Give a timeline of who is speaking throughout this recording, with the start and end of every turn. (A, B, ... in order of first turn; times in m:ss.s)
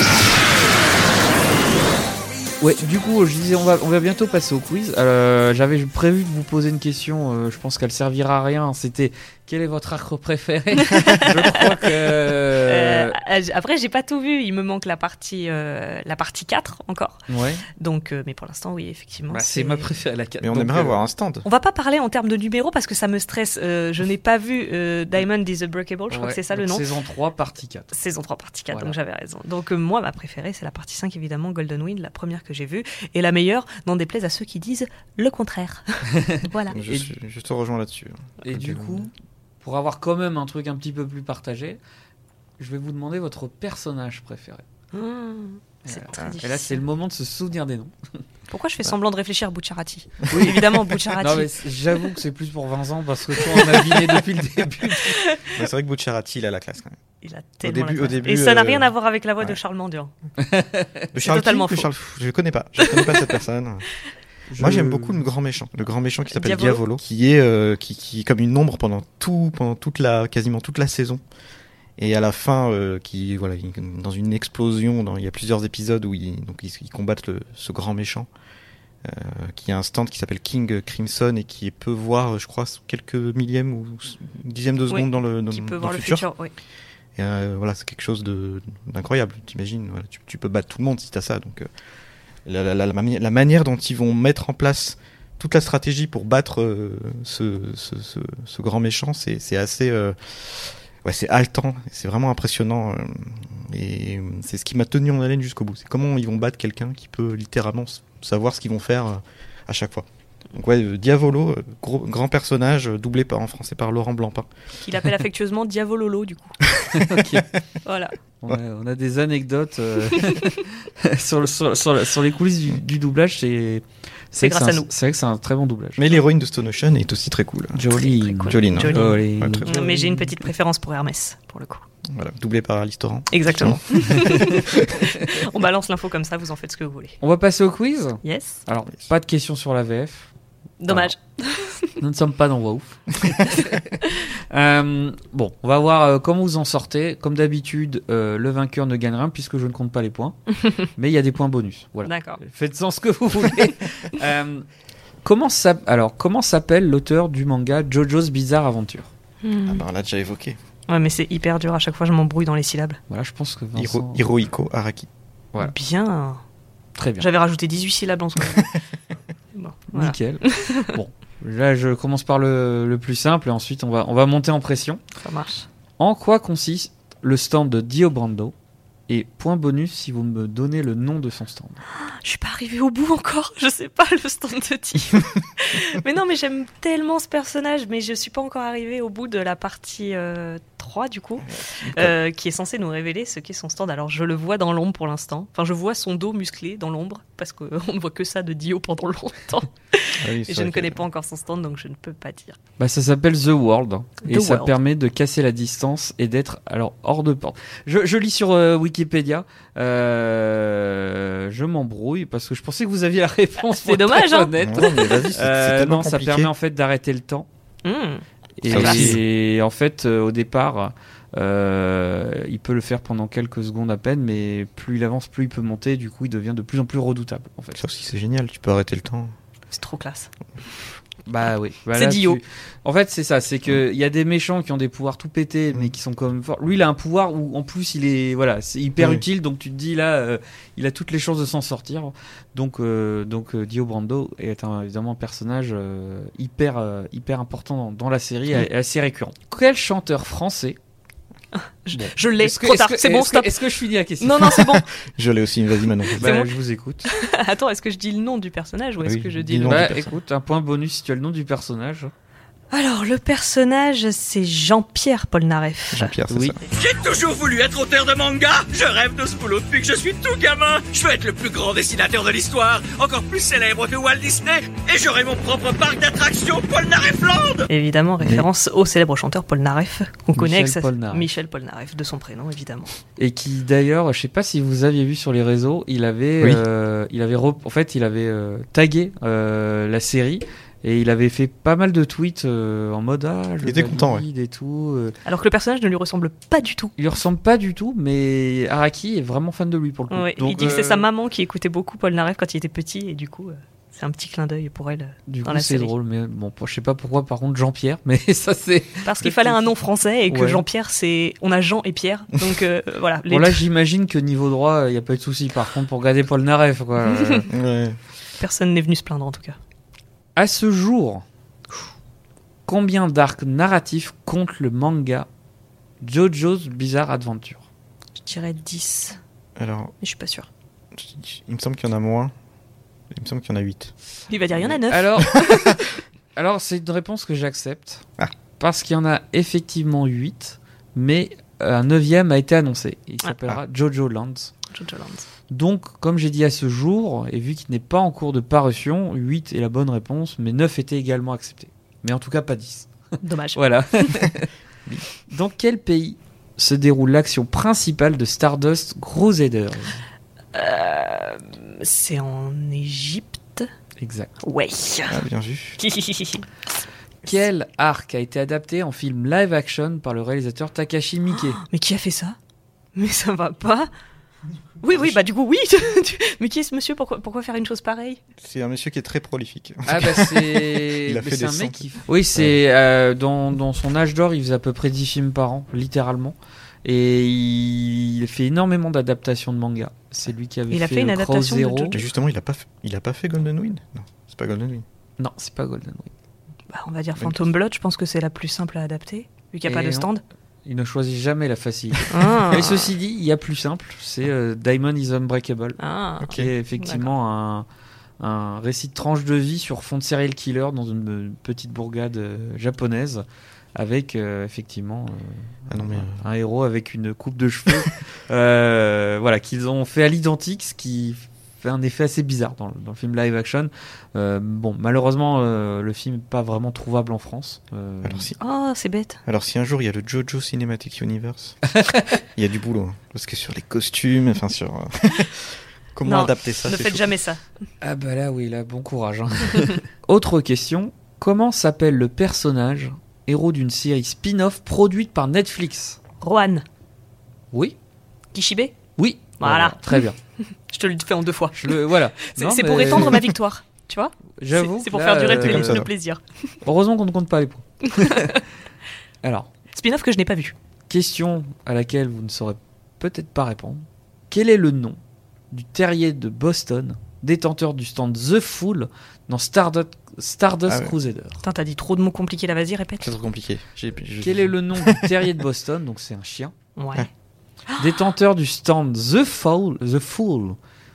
0:02.6-0:13.1 A
0:10.8-0:17.2 B
0:17.3-0:17.6 A
0:17.8-0:19.9 B
0:19.3-0:21.0 A
0:20.4-0:21.4 C
0:21.4-0:26.9 B
0:26.1-0:27.9 A
0:27.9-0:36.8 B
0:28.7-0:29.0 A
0:36.2-0:37.1 A
0:36.7-0:39.1 C
0:38.4-0:41.8 A
0:42.6-0:44.6 A
0:44.9-0:46.8 B
0:45.9-0:47.9 A
0:48.5-0:51.6 B
0:50.3-0:55.2 A
0:53.5-0:54.2 B
0:54.9-0:55.6 B
0:55.5-0:57.0 C
0:57.2-1:00.1 B
0:57.6-0:59.6 C
1:00.4-1:01.1 A
1:01.1-1:03.9 C
1:01.2-1:01.9 B
1:02.8-1:03.2 B
1:04.5-1:05.3 A
1:04.6-1:11.2 C
1:06.3-1:06.8 B
1:12.0-1:18.3 C
1:19.0-1:26.3 C
1:24.9-1:26.5 B
1:27.2-1:31.7 C
1:32.5-1:54.5 C
1:54.8-1:56.6 B
1:56.7-1:57.4 C
1:56.9-1:57.6 A
1:57.8-1:58.2 B
1:58.4-2:06.0 A
2:04.4-2:04.9 B
2:06.0-2:09.9 C
2:07.7-2:10.5 A
2:08.0-2:11.8 B
2:12.1-2:14.9 C
2:13.3-2:17.2 B
2:14.0-2:15.1 A
2:17.2-2:20.3 A
2:18.2-2:18.6 B
2:20.8-2:22.0 B
2:22.0-2:34.7 A
2:32.0-2:32.4 B
2:35.2-2:39.1 A
2:39.4-2:39.8 B
2:39.7-2:40.6 C
2:40.9-2:43.0 B
2:43.1-2:44.3 A
2:43.8-2:45.1 C
2:45.6-2:46.4 B
2:47.0-2:47.3 A
2:47.2-2:48.8 B
2:49.5-2:50.9 B
2:50.0-2:55.0 A
2:55.2-2:55.7 B
2:56.0-2:58.5 A
2:59.1-3:01.8 A
3:02.0-3:22.6 B
3:11.4-3:12.1 C
3:20.2-3:21.0 C
3:22.8-3:37.5 A
3:24.3-3:24.7 B
3:33.6-3:35.2 B
3:34.6-3:36.5 C
3:37.8-3:39.2 B
3:38.6-3:47.8 A
3:38.7-3:39.2 C
3:47.8-3:49.3 C
3:49.7-3:50.3 B
3:51.3-4:10.8 A
3:51.9-3:52.4 B
3:59.0-3:59.2 C
4:11.5-4:13.7 B
4:11.9-4:14.8 A
4:14.2-4:14.9 B
4:15.2-4:16.3 C
4:16.1-4:20.0 B
4:16.2-4:17.1 A
4:19.0-4:20.1 C
4:19.7-4:22.1 A
4:22.7-4:26.2 B
4:25.9-4:26.6 C
4:26.3-4:26.6 A
4:26.7-4:37.7 D
4:37.7-4:42.9 B
4:40.3-4:41.3 A
4:43.2-4:55.2 A
4:53.6-4:54.2 C
4:55.2-4:56.9 B
4:57.0-5:01.1 A
5:00.1-5:05.9 B
5:05.3-5:09.7 A
5:09.0-5:13.6 B
5:10.3-5:10.6 A
5:13.3-5:17.5 A
5:17.2-5:17.4 B
5:17.5-5:18.0 C
5:18.4-5:19.6 B
5:20.4-5:21.2 A
5:22.7-5:25.3 A
5:26.0-5:27.6 A
5:28.2-5:29.2 B
5:29.6-5:29.9 C
5:30.0-5:30.5 B
5:31.0-5:32.3 C
5:33.1-5:33.9 C
5:34.3-5:35.8 B
5:34.9-5:38.1 A
5:38.6-5:44.5 A
5:44.7-5:45.3 B
5:45.5-5:52.9 A
5:53.2-5:54.3 B
5:53.5-5:54.5 A
5:55.2-6:00.0 A
6:00.5-6:03.7 B
6:04.0-6:04.3 A
6:04.4-6:05.2 B
6:05.1-6:05.8 C
6:05.8-6:06.5 B
6:07.3-6:11.6 A
6:11.3-6:12.4 B
6:13.0-6:13.9 B
6:14.8-6:18.2 B
6:18.4-6:22.6 C
6:19.9-6:32.0 A
6:30.7-6:32.0 B
6:31.9-6:34.8 C
6:35.2-6:36.1 A
6:36.7-6:40.2 B
6:37.2-6:37.5 C
6:39.7-6:40.1 A
6:40.6-6:45.8 A
6:42.1-6:43.0 B
6:45.8-6:47.1 B
6:46.2-6:46.5 C
6:46.3-6:47.7 A
6:48.2-6:53.2 A
6:53.8-7:08.3 A
6:55.7-6:56.2 C
7:08.0-7:08.4 C
7:08.4-7:09.2 B
7:09.3-7:11.6 C
7:11.7-7:12.2 A
7:12.1-7:17.1 C
7:16.0-7:17.4 B
7:17.8-7:26.0 A
7:26.2-7:26.6 B
7:28.3-7:28.8 B
7:29.0-7:30.2 A
7:29.4-7:36.2 B
7:31.6-7:33.2 A
7:34.4-7:35.8 A
7:35.3-7:35.9 C
7:36.6-7:38.4 A
7:37.9-7:38.4 B
7:39.2-7:39.5 A
7:39.7-7:40.6 B
7:40.9-7:45.0 A
7:45.5-7:51.4 A
7:50.7-7:51.0 C
7:51.4-7:53.2 B
7:53.0-7:55.3 C
7:54.2-7:56.6 A
7:56.8-7:57.1 B
7:57.7-7:58.0 B
7:57.8-8:00.6 A